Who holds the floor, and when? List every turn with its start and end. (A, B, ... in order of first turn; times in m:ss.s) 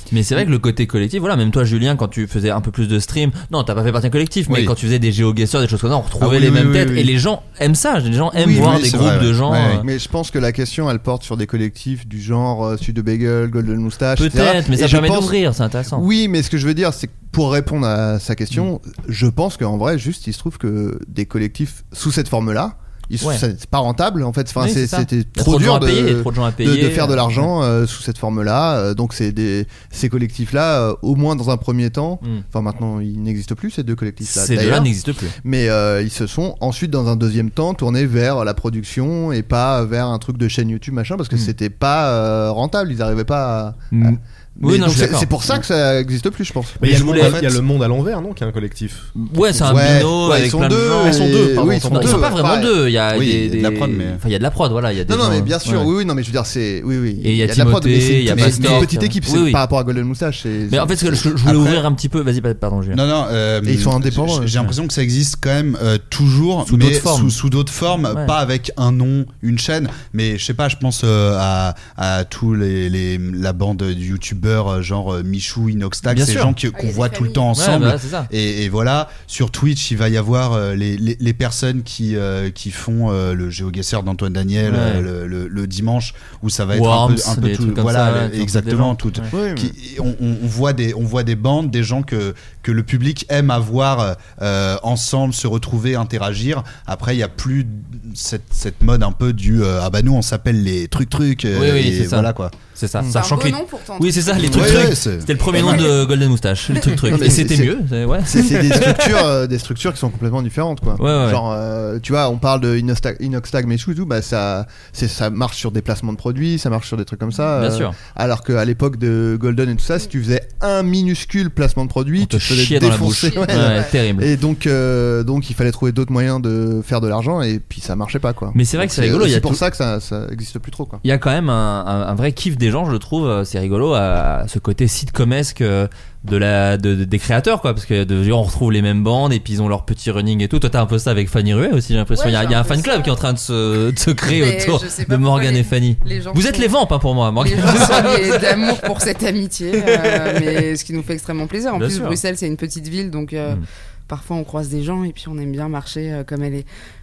0:00.1-0:09.9 A
0:06.2-0:06.5 B
0:06.3-0:07.0 C
0:08.4-0:09.1 C
0:08.4-0:09.9 B
0:09.8-0:15.4 C
0:14.2-0:16.1 A
0:15.9-0:47.4 C
0:24.6-0:27.5 A
0:34.2-0:35.4 A
0:43.9-0:45.3 A
0:46.8-0:49.2 D
0:46.8-0:47.4 A
0:47.2-0:47.5 B
0:49.2-0:55.9 A
0:49.6-0:52.8 C
0:49.7-0:50.1 B
0:51.2-0:52.2 D
0:53.1-0:54.2 B
0:55.1-1:01.3 C
0:57.2-0:59.6 A
0:58.3-0:58.9 B
1:00.7-1:03.0 A
1:01.4-1:01.8 B
1:02.9-1:42.5 B
1:03.6-1:04.5 C
1:06.7-1:07.4 A
1:08.1-1:08.4 A
1:16.1-1:16.6 A
1:16.7-1:17.5 E
1:17.6-1:18.3 A
1:24.7-1:25.1 A
1:26.7-1:29.3 A
1:29.3-1:29.8 C
1:41.5-1:49.1 A
1:43.1-1:44.8 E
1:44.4-1:45.9 B
1:47.0-2:11.0 C
1:51.0-1:51.4 A
1:57.6-1:58.0 A
2:02.2-2:04.3 A
2:03.3-2:03.9 E
2:08.5-2:09.6 A
2:11.0-2:28.8 A
2:22.1-2:23.2 E
2:24.3-2:26.7 E
2:27.4-2:36.7 E
2:29.9-2:30.4 A
2:31.8-2:32.2 A